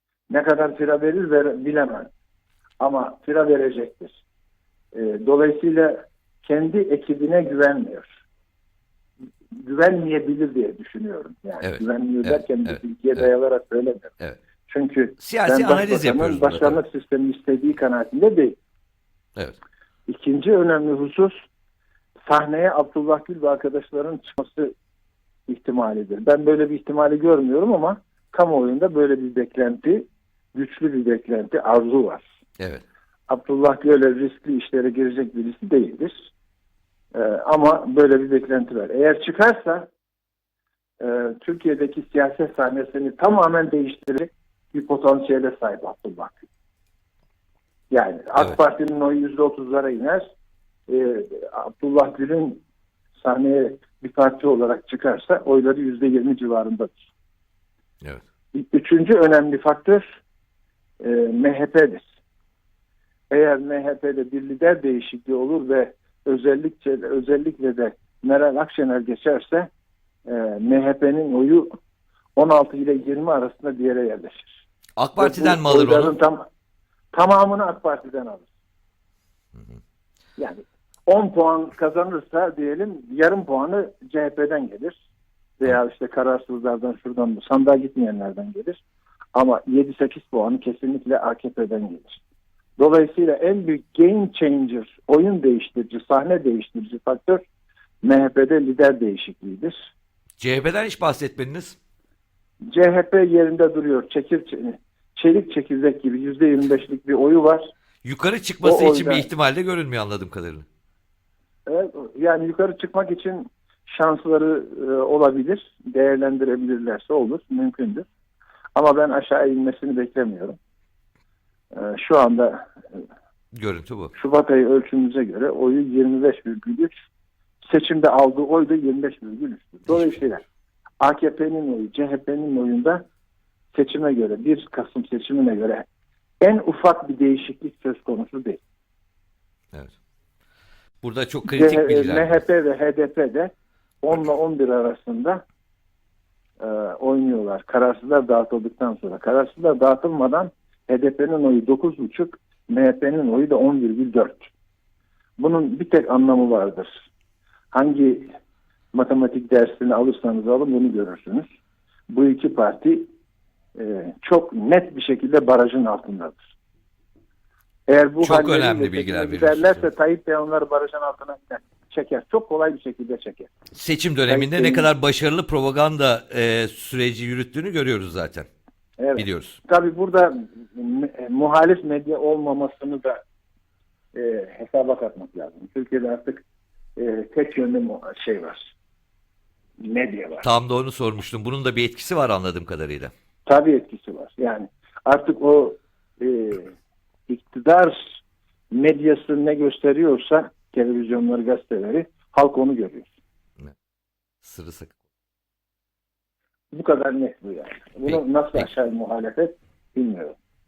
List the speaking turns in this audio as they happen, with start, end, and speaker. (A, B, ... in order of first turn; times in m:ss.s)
0:00.3-0:02.1 A
0:02.8-0:04.2 A
0:04.9-0:08.1 A
0:09.6-0:18.6 A
0:11.6-0:12.8 B
0:15.2-0:16.8 B
0:20.1-0:21.3 A
0:22.2-0:24.7 A
0:25.5-0:32.2 A
0:33.3-0:36.1 A
0:37.1-0:39.9 A
0:41.0-0:46.4 A
0:47.9-0:50.2 A
0:50.9-0:52.6 A
0:53.2-0:57.1 A
0:58.5-1:00.0 A
1:01.0-1:02.0 A
1:03.3-1:09.7 A
1:10.3-1:11.7 A
1:12.4-1:14.6 A
1:15.0-1:16.1 B
1:15.2-1:16.4 A
1:17.1-1:18.5 A
1:20.4-1:25.0 A
1:25.6-1:28.8 A
1:29.3-1:32.2 A
1:32.8-1:37.4 A
1:38.0-1:39.7 A
1:40.4-1:41.8 B
1:42.7-1:47.6 A
1:48.0-1:50.6 B
1:48.6-1:49.3 A
1:51.7-1:58.0 A
1:58.8-2:00.6 A
2:01.7-2:03.0 A
2:03.5-2:04.1 B
2:04.1-2:06.9 A
2:07.7-2:10.4 A
2:11.0-2:13.0 A
2:13.7-2:15.8 A
2:16.4-2:18.6 A
2:21.0-2:22.4 B
2:21.5-2:23.5 A
2:24.0-2:25.4 A
2:26.6-2:34.5 A
2:35.4-2:37.0 A
2:37.7-2:38.3 A
2:38.9-2:41.4 A
2:42.1-2:43.1 A
2:43.7-2:46.4 A
2:47.9-2:53.5 A
2:48.2-2:49.8 B
2:53.7-2:58.5 B
2:54.3-2:54.9 A
2:59.0-3:03.2 A
2:59.2-2:59.6 B
3:04.1-3:06.4 A
3:07.0-3:08.7 A
3:09.8-3:10.4 A
3:10.4-3:13.1 B
3:13.5-3:16.7 A
3:17.3-3:18.0 A
3:18.7-3:23.1 A
3:24.4-3:24.9 B
3:26.7-3:30.4 A
3:28.0-3:28.7 B